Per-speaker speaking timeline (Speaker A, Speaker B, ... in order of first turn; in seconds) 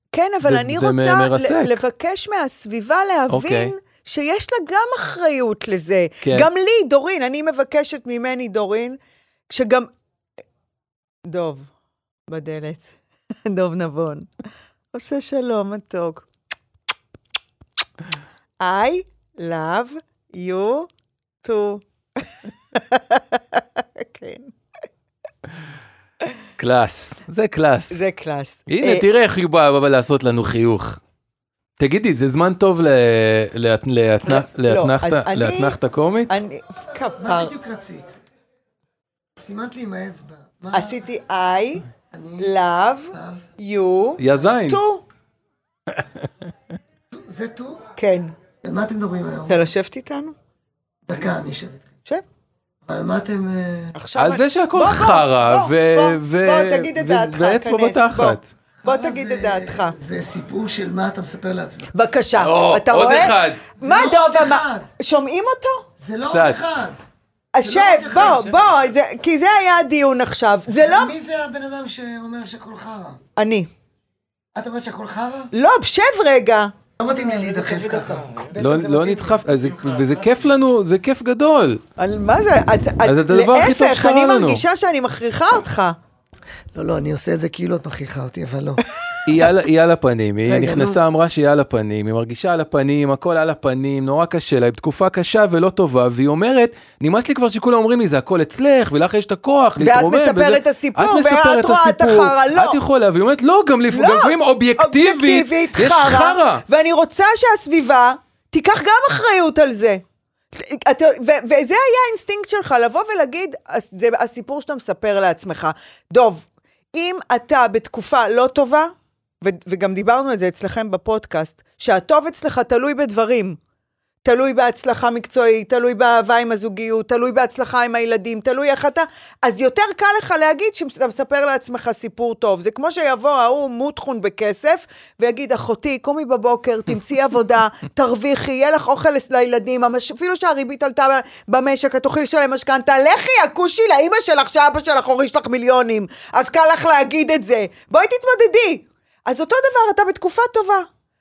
Speaker A: 0.1-9.0, 9.5-9.9, 11.2-11.7, 12.3-12.9, 13.4-14.3, 14.9-16.3, 18.6-20.9, 21.4-24.5, 27.9-29.1, 34.2-37.5, 40.7-41.9, 42.4-45.0, 48.0-48.3, 49.5-50.3, 53.9-60.0, 61.9-65.9, 67.5-71.1, 73.4-73.7, 75.5-76.7, 82.0-86.0, 99.8-102.8, 103.9-123.6, 124.2-150.9
Speaker B: 0.4-1.8, 3.3-3.7, 6.2-6.5, 26.6-28.0, 28.7-31.0, 31.8-36.3, 44.2-44.8, 45.9-46.2, 54.2-58.5, 62.4-63.6, 66.3-66.6, 78.6-81.8, 83.0-84.6, 89.2-106.6
Speaker C: 37.2-38.1, 39.4-40.9, 42.1-42.5, 43.1-43.5, 47.1-47.8, 48.6-49.6, 51.1-51.9, 52.9-54.0, 58.8-61.9, 63.8-64.9, 66.0-67.0, 67.6-68.5, 70.7-73.2, 74.5-75.5, 77.0-79.4, 86.7-88.8, 90.5-91.0